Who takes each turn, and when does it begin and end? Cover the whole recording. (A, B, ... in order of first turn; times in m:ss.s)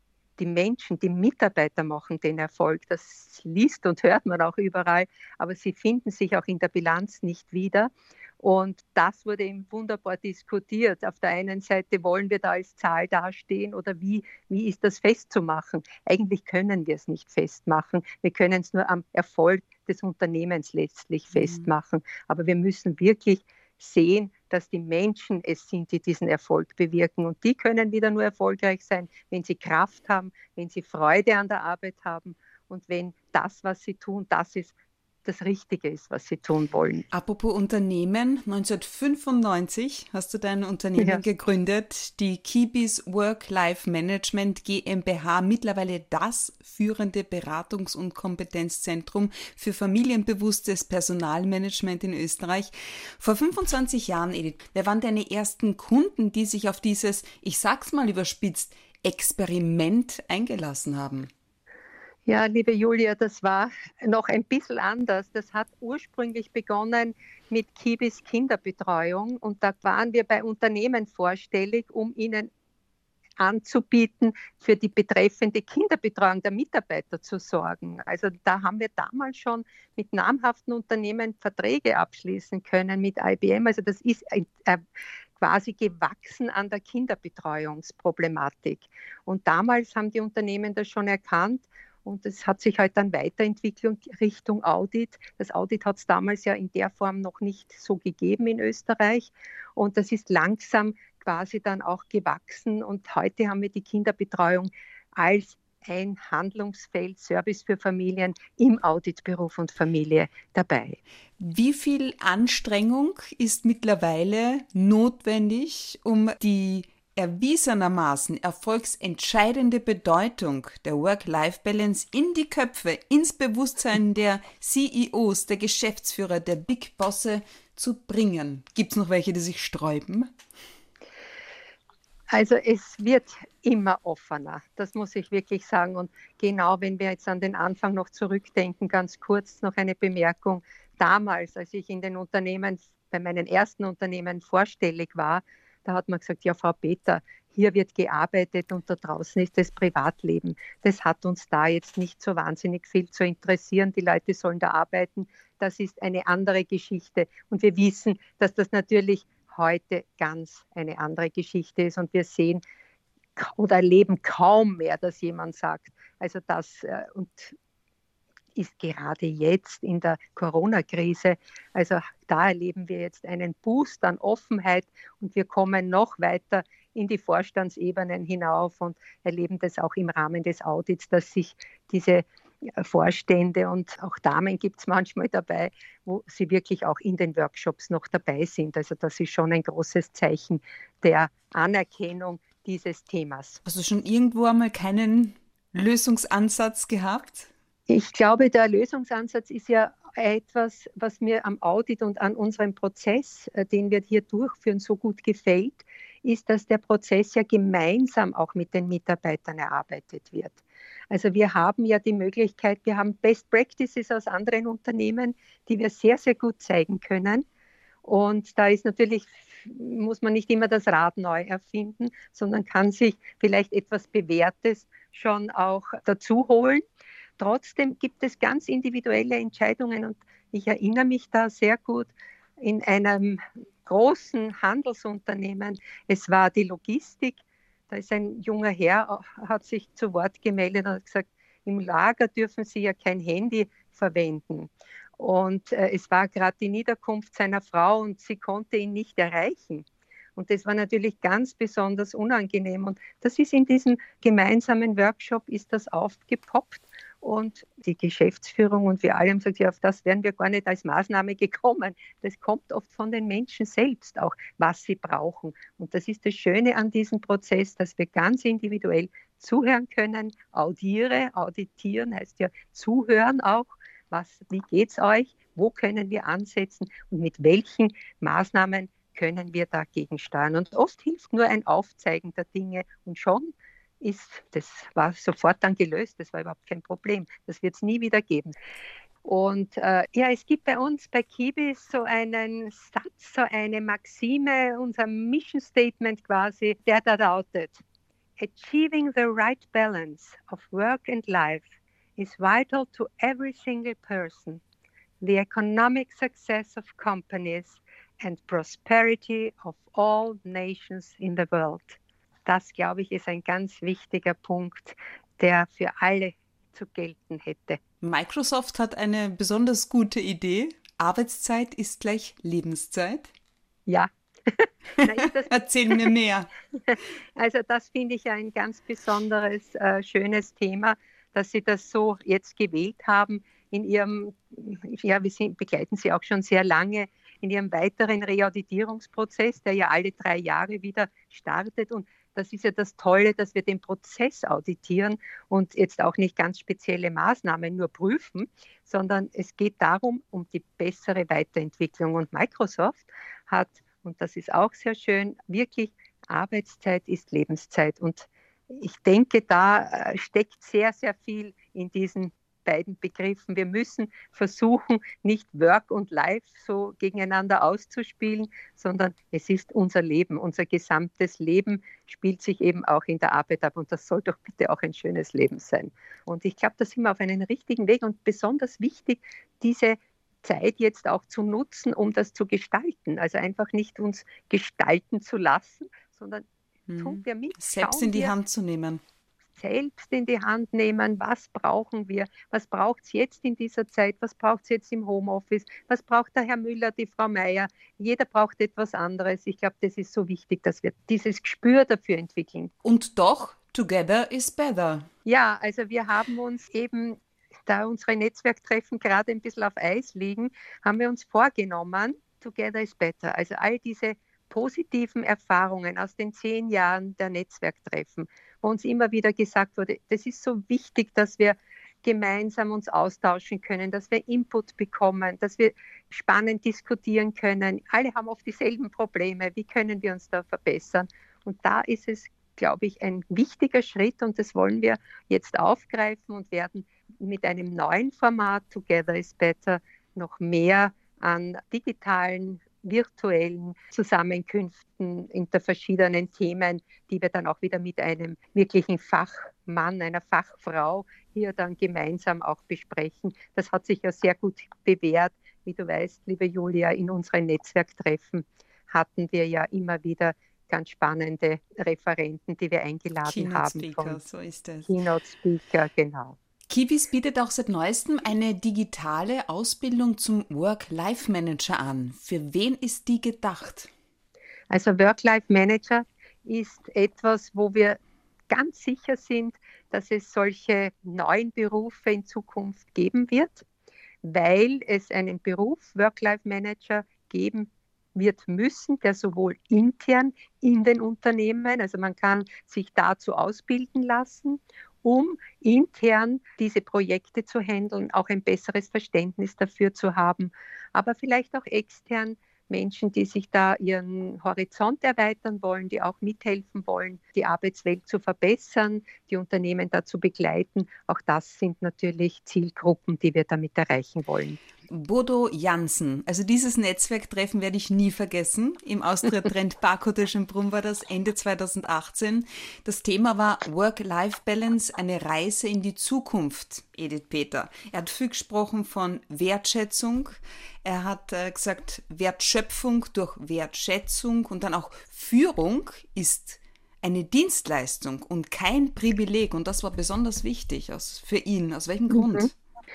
0:00.4-0:37.1 A
0:21.4-0:21.7 B
0:37.1-1:01.3 B
0:41.0-0:41.2 A
1:02.3-1:12.5 A
1:13.4-1:24.8 A
1:25.4-1:51.0 A
1:51.4-2:10.3 B
2:12.3-2:42.6 A
2:43.4-2:47.6 A
2:48.6-3:13.6 A
3:13.6-3:17.5 B
3:17.9-3:30.6 A
3:31.1-3:37.4 A
3:38.0-3:46.8 A
3:47.4-3:57.4 A
3:57.9-4:48.6 A
4:49.2-4:57.8 A
4:58.4-5:04.6 A
5:05.2-5:17.8 A
5:18.0-5:23.3 B
5:23.9-5:26.1 A
5:25.0-5:26.5 B
5:26.9-6:26.5 A
6:26.9-6:29.0 B
6:27.0-6:28.3 A
6:29.6-6:42.7 A
6:42.8-6:45.1 B
6:45.2-7:44.2 A
7:43.2-7:44.9 B
7:44.9-7:46.4 A
7:46.7-7:53.9 B
7:54.7-7:58.0 A
7:58.5-8:03.7 A
8:04.2-8:34.6 A
8:34.9-9:02.6 B
9:02.1-9:02.5 A